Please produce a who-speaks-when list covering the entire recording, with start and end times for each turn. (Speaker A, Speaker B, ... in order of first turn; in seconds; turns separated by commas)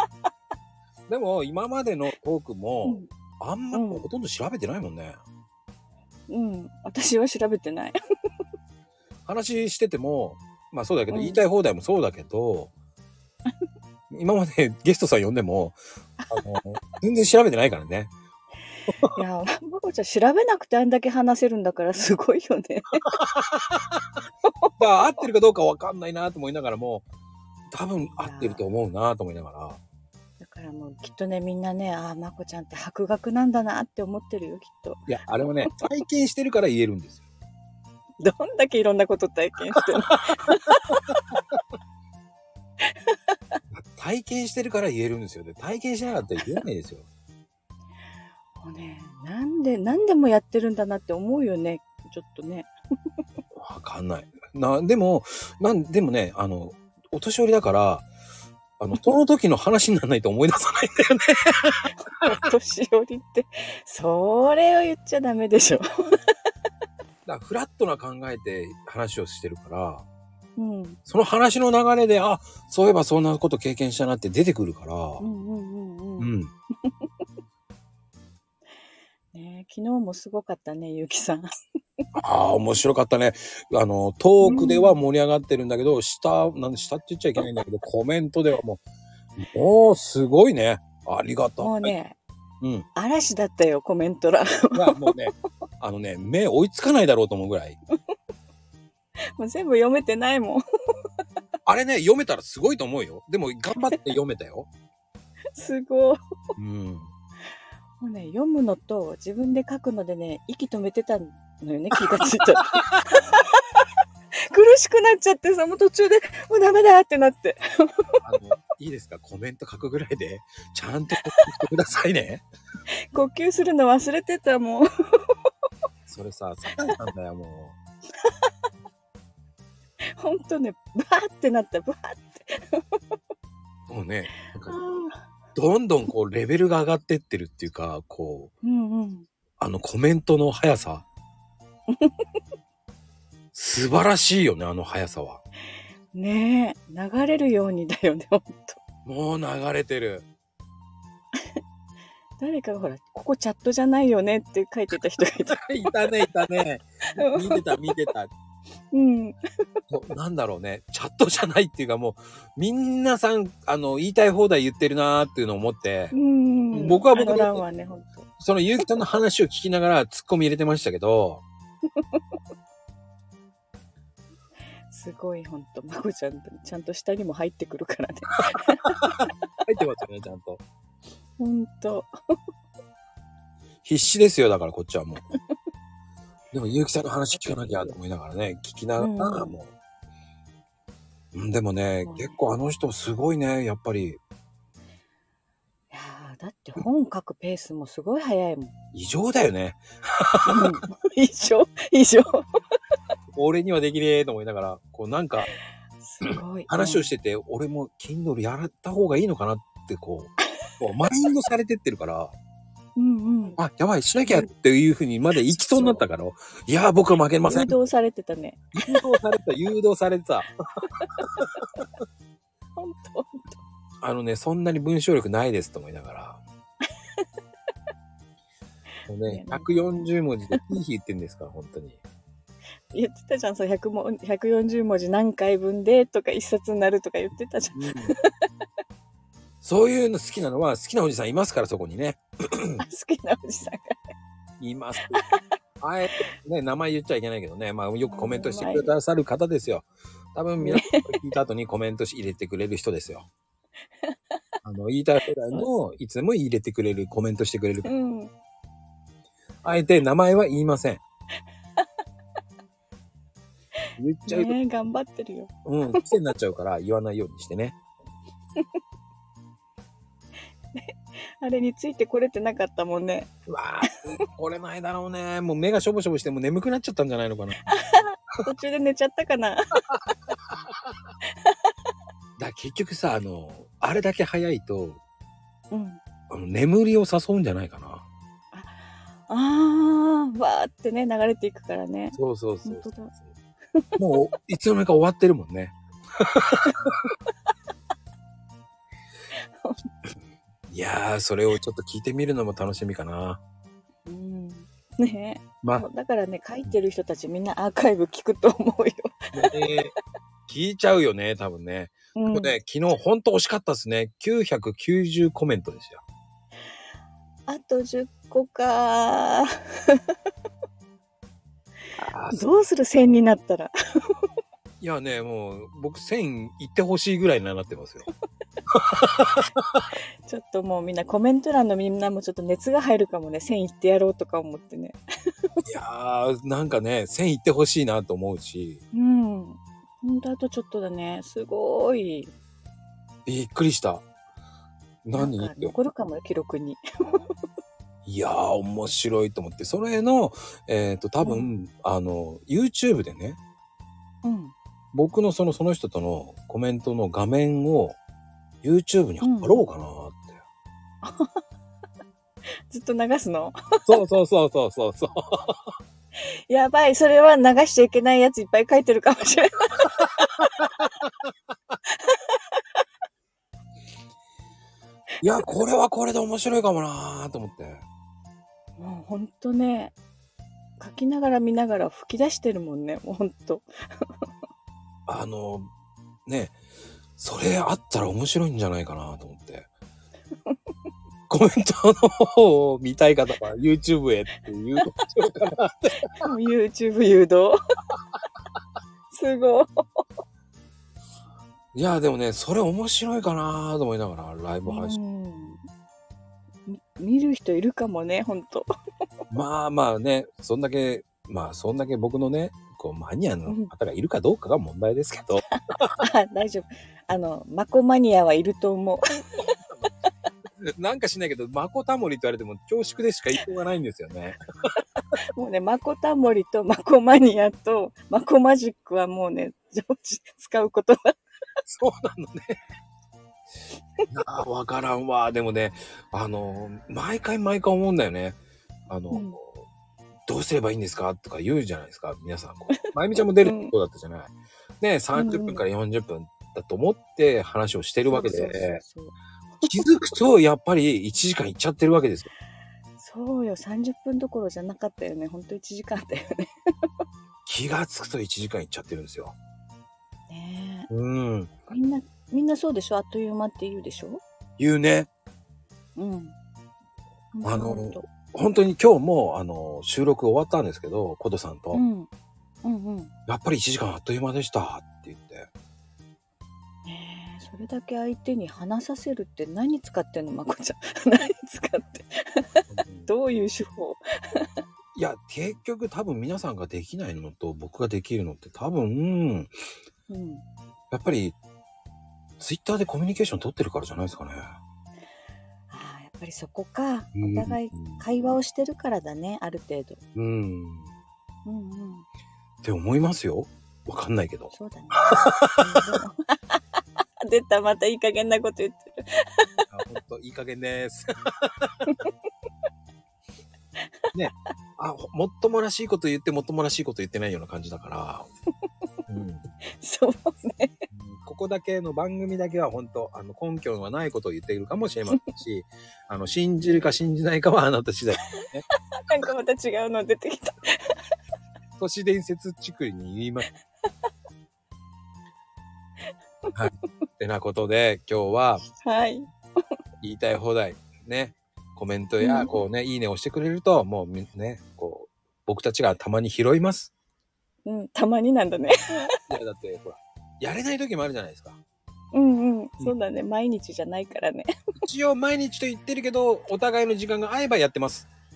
Speaker A: 1.1-5.2, Speaker B: 3.7-4.0, Speaker B: 6.3-8.0, Speaker A: 9.2-12.7, Speaker B: 11.1-11.4, Speaker A: 14.1-15.8, Speaker B: 16.2-16.4, Speaker A: 16.3-18.1, Speaker B: 19.1-23.1, Speaker A: 23.1-24.0, Speaker B: 24.5-25.2, Speaker A: 24.8-27.0, Speaker A: 27.7-29.8, Speaker B: 28.1-28.6, Speaker B: 30.4-35.1, Speaker A: 35.1-37.2, Speaker B: 38.2-41.4, Speaker B: 42.9-43.1, Speaker A: 43.7-47.0, Speaker B: 48.6-52.7, Speaker A: 53.5-58.1, Speaker A: 58.8-61.9, Speaker B: 62.0-65.8, Speaker A: 67.2-70.0, Speaker B: 70.6-71.0, Speaker A: 71.1-75.2, Speaker B: 75.2-76.3, Speaker A: 76.2-76.5, Speaker B: 79.3-81.5, Speaker A: 82.2-88.8, Speaker B: 84.4-85.0, Speaker A: 89.4-91.9, Speaker B: 91.6-92.2, Speaker B: 93.0-95.1, Speaker A: 94.7-97.8, Speaker B: 99.4-100.6, Speaker A: 101.7-104.7, Speaker B: 105.5-106.2, Speaker A: 106.6-107.1, Speaker B: 108.0-113.8, Speaker A: 112.7-113.0, Speaker B: 114.5-118.1, Speaker A: 118.2-122.4, Speaker B: 123.1-125.3, Speaker A: 126.1-127.8, Speaker B: 130.2-133.0, Speaker A: 133.9-134.8, Speaker B: 134.5-135.2, Speaker A: 135.5-138.5, Speaker B: 138.6-139.2, Speaker A: 139.6-141.0, Speaker B: 141.9-142.2, Speaker A: 143.5-145.4, Speaker B: 146.1-148.8, Speaker A: 149.1-150.3, Speaker B: 152.4-155.9, Speaker A: 155.5-158.3, Speaker B: 157.2-157.9, Speaker B: 158.9-159.4, Speaker A: 159.9-166.1, Speaker B: 166.1-168.3, Speaker A: 166.7-167.6, Speaker A: 168.4-171.4, Speaker B: 174.9-179.3, Speaker A: 179.0-180.6, Speaker B: 181.4-182.1, Speaker A: 183.8-185.2, Speaker A: 186.5-189.7, Speaker B: 189.0-189.5, Speaker A: 191.3-194.2, Speaker B: 192.1-192.4, Speaker B: 195.9-198.7, Speaker A: 198.9-200.8, Speaker B: 200.4-202.4, Speaker A: 203.3-205.5, Speaker B: 206.0-207.1, Speaker A: 206.2-212.3, Speaker B: 212.9-213.6, Speaker A: 213.6-217.7, Speaker B: 215.4-216.0, Speaker B: 217.5-219.1, Speaker A: 218.8-220.5, Speaker B: 221.0-221.4, Speaker B: 222.8-223.6, Speaker A: 224.0-226.4, Speaker A: 229.1-232.0, Speaker B: 229.2-230.6, Speaker B: 232.9-238.2, Speaker A: 237.7-238.1, Speaker A: 239.6-242.8, Speaker B: 242.8-244.0, Speaker A: 244.6-245.2, Speaker B: 245.1-245.4, Speaker A: 245.8-253.3, Speaker B: 248.0-248.9, Speaker B: 250.6-251.1, Speaker A: 254.6-257.9, Speaker B: 257.8-258.3, Speaker A: 259.6-261.0, Speaker A: 264.0-264.6, Speaker B: 264.3-266.0, Speaker A: 265.6-267.8, Speaker B: 270.7-273.3, Speaker A: 273.5-277.6, Speaker B: 277.6-279.8, Speaker A: 280.5-280.9, Speaker B: 281.4-281.7, Speaker A: 282.4-285.0, Speaker B: 285.7-286.0, Speaker A: 286.3-288.1, Speaker B: 288.5-293.1, Speaker A: 292.1-293.3, Speaker A: 294.0-296.9, Speaker A: 300.7-303.4, Speaker B: 304.1-309.5, Speaker A: 309.3-309.9, Speaker A: 310.5-316.0, Speaker B: 312.1-312.5, Speaker B: 317.5-320.0, Speaker A: 322.0-322.5, Speaker B: 322.3-323.7, Speaker A: 324.8-328.1, Speaker A: 328.7-329.9, Speaker B: 330.2-335.0, Speaker A: 335.6-338.8, Speaker B: 338.9-342.3, Speaker A: 343.2-344.0, Speaker A: 345.0-345.8, Speaker B: 345.1-347.2, Speaker A: 348.0-353.4, Speaker B: 351.2-351.5, Speaker B: 354.2-354.5, Speaker A: 354.9-358.0, Speaker A: 358.6-360.4, Speaker B: 359.2-359.6, Speaker B: 361.0-361.4, Speaker B: 362.7-363.5, Speaker A: 363.9-365.7, Speaker B: 366.5-370.6, Speaker A: 370.6-371.1, Speaker B: 372.0-372.6, Speaker A: 375.2-377.8, Speaker B: 378.8-379.9, Speaker B: 380.8-384.2, Speaker A: 385.1-385.7, Speaker A: 386.2-386.6, Speaker A: 387.2-389.7, Speaker A: 391.3-396.1, Speaker B: 396.2-397.6, Speaker B: 399.1-400.0, Speaker A: 401.7-405.0, Speaker B: 404.7-405.6, Speaker B: 406.6-408.7, Speaker A: 409.3-415.9, Speaker B: 416.0-419.1, Speaker A: 419.4-419.9, Speaker A: 420.6-424.4, Speaker B: 425.3-431.1, Speaker A: 431.6-432.6, Speaker A: 434.1-438.4, Speaker A: 438.9-439.6, Speaker B: 439.1-439.4, Speaker A: 440.3-448.8, Speaker B: 443.4-443.7, Speaker B: 445.1-445.6, Speaker B: 448.1-449.7, Speaker A: 449.6-452.3, Speaker B: 453.0-456.5, Speaker A: 457.4-459.3, Speaker B: 460.3-460.9, Speaker A: 460.9-461.5, Speaker B: 461.7-464.2, Speaker A: 464.6-465.1, Speaker B: 465.9-466.3, Speaker B: 467.3-468.1, Speaker A: 467.4-471.8, Speaker B: 471.7-472.1, Speaker B: 472.6-473.1, Speaker A: 473.3-475.5, Speaker B: 476.8-482.4, Speaker A: 482.7-483.1, Speaker B: 483.1-484.5, Speaker A: 484.9-489.5, Speaker B: 490.1-490.4, Speaker A: 490.9-491.4, Speaker A: 492.4-494.6, Speaker B: 495.7-500.0, Speaker A: 497.1-498.0, Speaker A: 500.1-500.9, Speaker B: 501.4-502.1, Speaker A: 502.6-505.8, Speaker B: 504.5-506.6, Speaker B: 507.2-509.6, Speaker A: 509.7-511.8, Speaker B: 511.9-512.1, Speaker A: 514.1-518.3, Speaker A: 519.1-519.4, Speaker B: 519.8-520.9, Speaker A: 520.9-528.6, Speaker B: 526.6-526.9, Speaker B: 529.0-531.0, Speaker A: 531.8-533.5, Speaker A: 536.5-538.6, Speaker B: 538.8-539.3, Speaker A: 540.0-546.9, Speaker B: 542.2-542.6, Speaker B: 547.6-549.0, Speaker A: 549.2-551.6, Speaker B: 552.1-554.5, Speaker A: 554.8-558.1